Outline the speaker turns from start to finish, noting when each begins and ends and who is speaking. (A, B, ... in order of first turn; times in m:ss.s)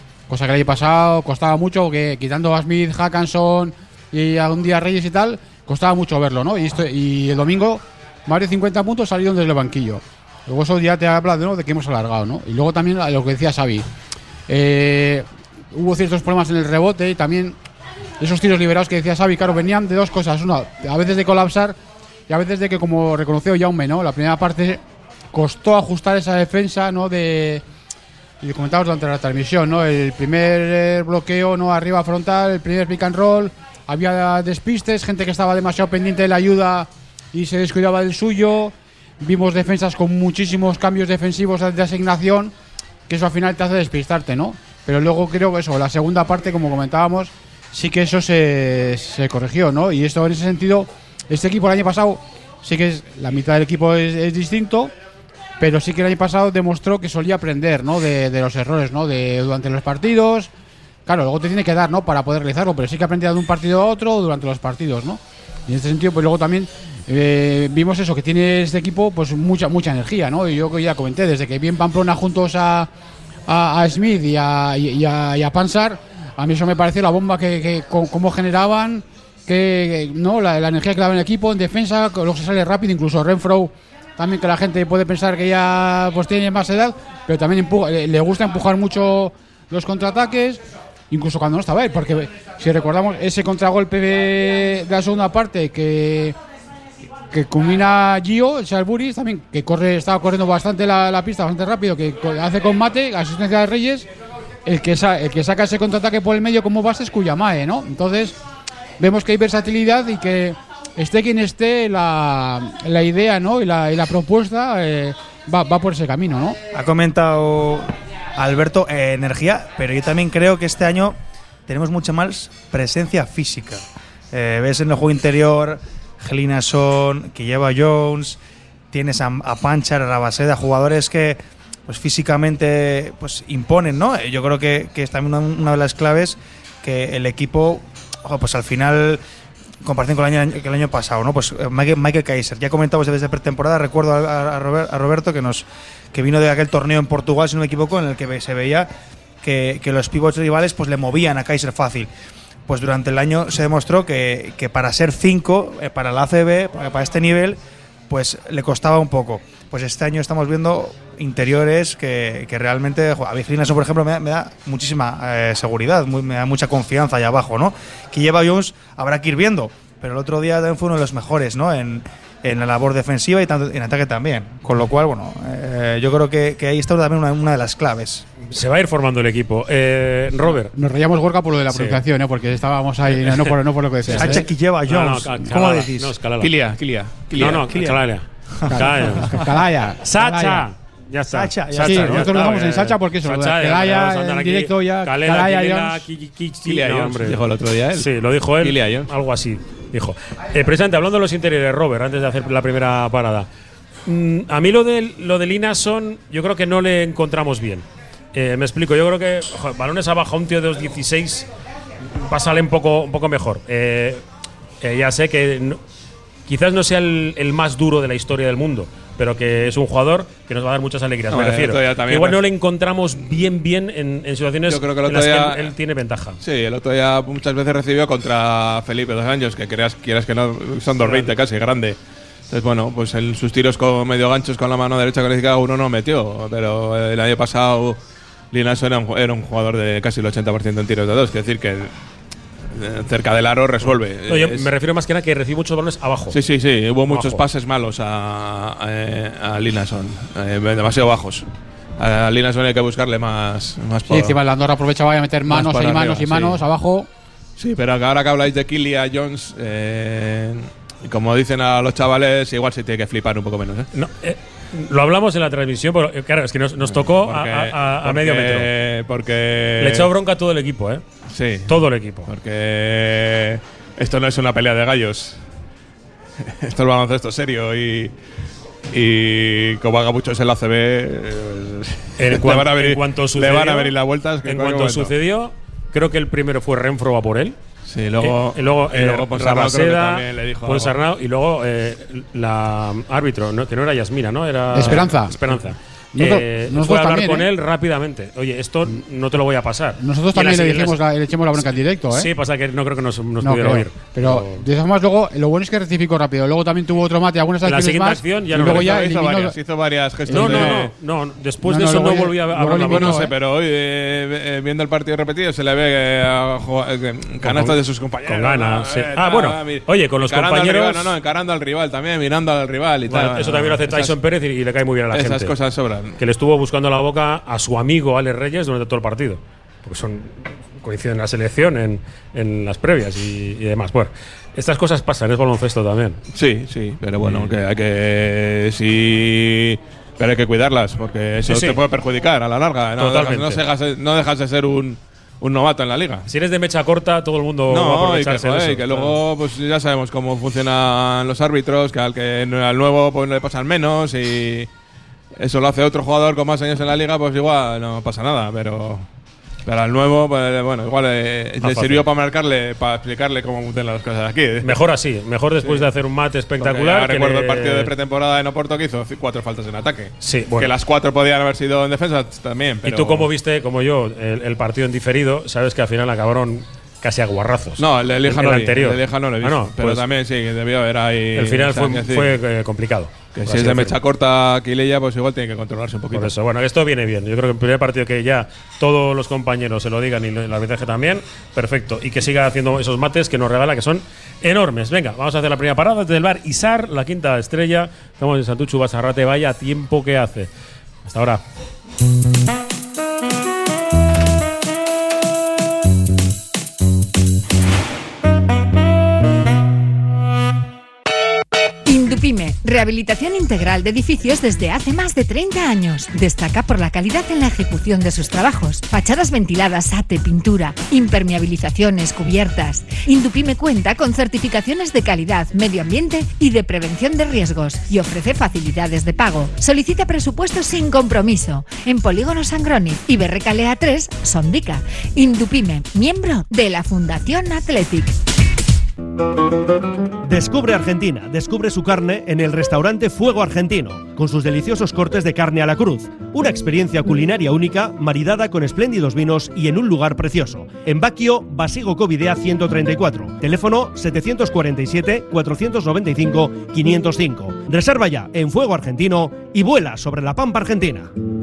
0:00.3-0:13.9 A
0:14.5-0:17.6 A
0:18.2-0:21.8 A
0:22.3-0:24.8 A
0:25.3-0:27.6 A
0:28.4-0:42.5 A
0:43.1-0:54.9 A
0:55.6-1:00.5 A
1:01.0-1:12.9 A
1:13.5-1:36.4 A
1:37.3-1:44.1 A
1:44.6-1:48.4 A
1:49.0-1:56.6 A
1:56.7-2:08.4 B
2:08.9-2:19.2 B
2:19.8-2:28.9 B
2:29.4-2:32.1 B
2:32.7-2:58.3 B
2:58.4-3:00.7 C
3:00.7-3:04.5 A
3:01.7-3:02.0 C
3:03.2-3:03.5 C
3:04.1-3:06.5 C
3:04.1-3:06.2 B
3:06.4-3:07.6 D
3:07.3-3:09.4 B
3:07.3-3:09.4 C
3:08.6-3:10.7 A
3:10.0-3:17.4 C
3:11.3-3:12.5 B
3:11.8-3:16.0 A
3:16.6-3:19.1 D
3:17.9-3:23.5 C
3:24.0-3:31.5 C
3:32.1-3:34.2 C
3:34.8-3:35.8 C
3:36.5-3:46.4 C
3:41.3-3:42.4 D
3:44.7-3:45.7 D
3:46.4-3:52.0 D
3:51.0-3:51.3 C
3:52.5-3:58.0 D
3:58.5-4:01.9 D
4:02.7-4:04.7 D
4:04.3-4:06.4 C
4:06.3-4:11.4 D
4:07.1-4:07.4 C
4:12.0-4:14.4 D
4:14.1-4:17.1 A
4:15.5-4:16.6 D
4:17.6-4:23.9 D
4:23.9-4:28.7 C
4:26.8-4:30.1 D
4:29.8-4:31.0 C
4:31.3-4:35.4 D
4:31.7-4:32.3 C
4:36.4-4:38.1 D
4:38.9-4:45.1 D
4:42.2-4:47.6 C
4:47.9-4:51.0 D
4:48.2-5:01.0 C
4:54.7-4:55.6 A
4:56.1-4:57.5 A
5:00.0-5:02.3 A
5:01.6-5:04.6 C
5:03.4-5:09.6 A
5:07.6-5:08.9 C
5:08.5-5:10.9 D
5:10.2-5:10.9 A
5:10.3-5:13.2 C
5:11.6-5:13.3 A
5:12.8-5:24.2 D
5:17.4-5:21.1 C
5:23.1-5:25.5 C
5:25.1-5:26.2 D
5:26.2-5:36.2 C
5:36.3-5:46.3 D
5:37.2-5:37.5 C
5:41.5-5:41.8 C
5:43.0-5:43.6 C
5:46.3-5:49.2 C
5:47.7-5:54.7 D
5:55.4-5:59.0 D
5:59.6-6:04.8 D
6:01.6-6:02.0 C
6:04.6-6:07.9 C
6:05.6-6:05.9 D
6:06.6-6:13.3 D
6:10.2-6:10.7 C
6:12.8-6:20.0 C
6:17.8-6:22.4 D
6:21.3-6:24.0 C
6:23.3-6:26.3 D
6:26.1-6:40.5 C
6:41.0-6:41.4 C
6:51.8-7:18.2 E
7:20.2-7:41.1 F